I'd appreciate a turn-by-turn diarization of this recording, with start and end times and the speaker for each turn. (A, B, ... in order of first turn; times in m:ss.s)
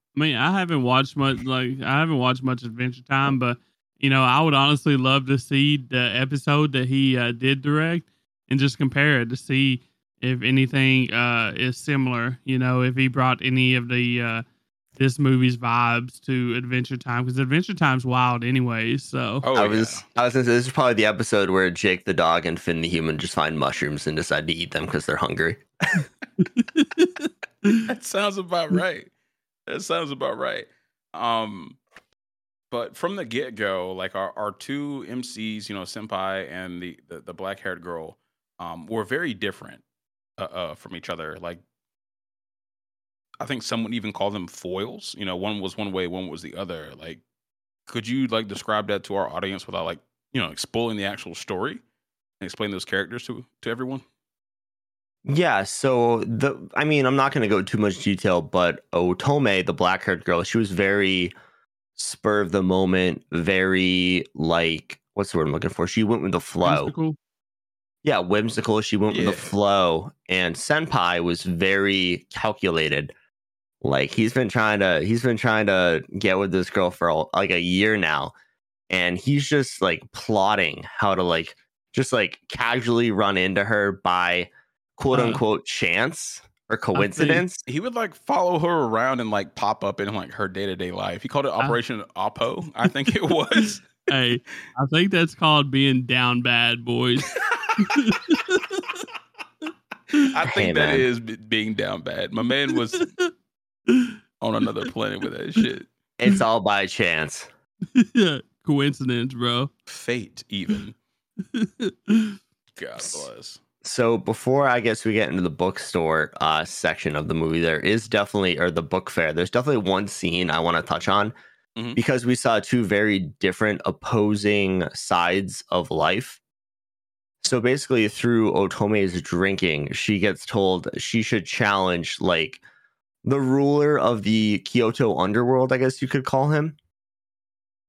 0:00.2-0:14.4 A
0:15.0-0:19.4 A
0:19.4-0:20.0 B
0:19.6-0:26.0 C
0:26.4-0:27.8 A
0:27.8-0:29.1 B
0:29.7-0:31.8 B
0:32.7-0:39.8 B
0:40.4-0:41.6 B
0:43.4-0:47.2 B
0:47.9-0:51.8 B
0:52.4-0:54.0 B
0:55.3-1:01.3 C
1:02.0-1:06.9 C
1:06.6-1:07.2 A
1:08.0-1:13.1 C
1:09.1-1:09.5 B
1:13.8-1:18.3 C
1:18.9-1:27.6 C
1:25.1-1:25.4 A
1:27.0-1:27.4 A
1:27.7-1:34.0 B
1:34.1-1:39.0 A
1:37.4-1:37.7 B
1:40.3-1:43.1 B
1:40.4-1:41.1 C
1:42.9-1:43.3 A
1:44.4-1:45.9 B
1:46.2-1:47.5 C
1:48.0-1:49.7 A
1:49.9-1:51.0 B
1:51.5-1:52.4 A
1:52.8-1:53.6 B
1:53.8-2:01.3 C
2:02.0-2:06.4 C
2:07.4-2:12.6 C
2:13.2-2:16.8 C